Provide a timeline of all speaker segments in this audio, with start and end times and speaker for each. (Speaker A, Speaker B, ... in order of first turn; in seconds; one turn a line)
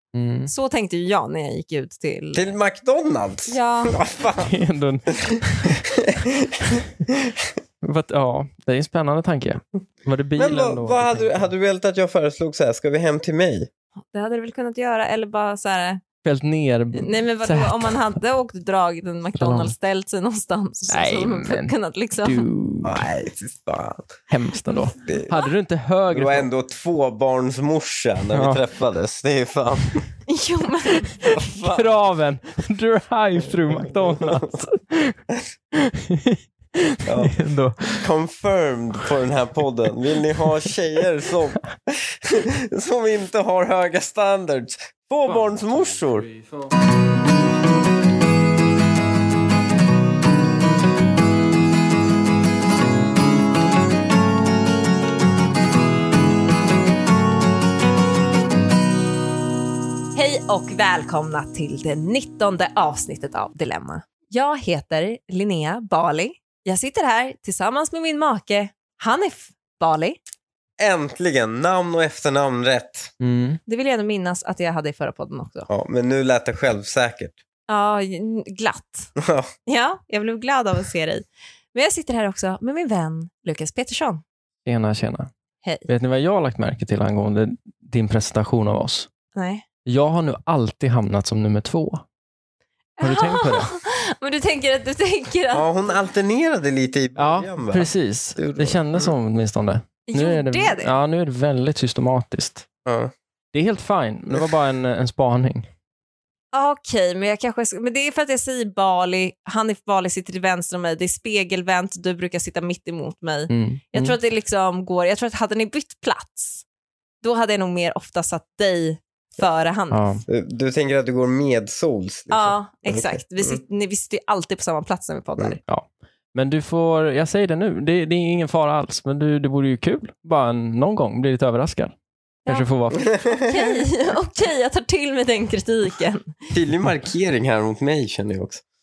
Speaker A: 0.1-0.5
Speaker B: 0.5-2.5
Speaker C: 2.3-4.5
Speaker B: 3.5-4.0
Speaker A: 4.4-5.8
Speaker C: 5.9-7.5
Speaker A: 7.8-11.3
Speaker C: 10.4-13.7
Speaker B: 14.1-16.0
Speaker A: 16.2-18.0
Speaker B: 16.9-22.5
Speaker A: 19.4-19.7
Speaker A: 20.9-23.1
Speaker C: 22.8-24.1
Speaker A: 24.3-26.5
Speaker C: 25.0-25.3
Speaker C: 26.1-30.0
Speaker A: 28.3-28.6
Speaker B: 30.3-31.5
Speaker C: 31.3-32.0
Speaker A: 31.6-35.2
Speaker C: 33.7-34.5
Speaker A: 35.8-38.1
Speaker C: 37.1-37.3
Speaker C: 38.0-46.3
Speaker A: 45.3-46.7
Speaker B: 60.1-70.2
Speaker C: 70.8-73.1
Speaker A: 73.2-73.6
Speaker B: 73.7-75.7
Speaker C: 75.7-77.4
Speaker B: 77.7-79.1
Speaker C: 79.2-79.5
Speaker B: 79.7-84.2
Speaker A: 84.7-85.3
Speaker A: 85.9-89.1
Speaker B: 89.3-89.6
Speaker A: 89.9-92.0
Speaker B: 93.0-95.9
Speaker A: 93.0-93.7
Speaker C: 95.5-99.1
Speaker A: 97.2-102.7
Speaker B: 100.1-100.9
Speaker C: 102.8-103.1
Speaker A: 103.5-105.7
Speaker B: 106.5-116.7
Speaker A: 113.5-114.2
Speaker B: 117.2-120.2
Speaker A: 119.9-120.2
Speaker C: 120.3-123.6
Speaker B: 122.3-125.6
Speaker A: 125.7-131.9
Speaker A: 132.5-133.1
Speaker C: 133.2-133.4
Speaker B: 133.3-136.4
Speaker C: 136.5-138.6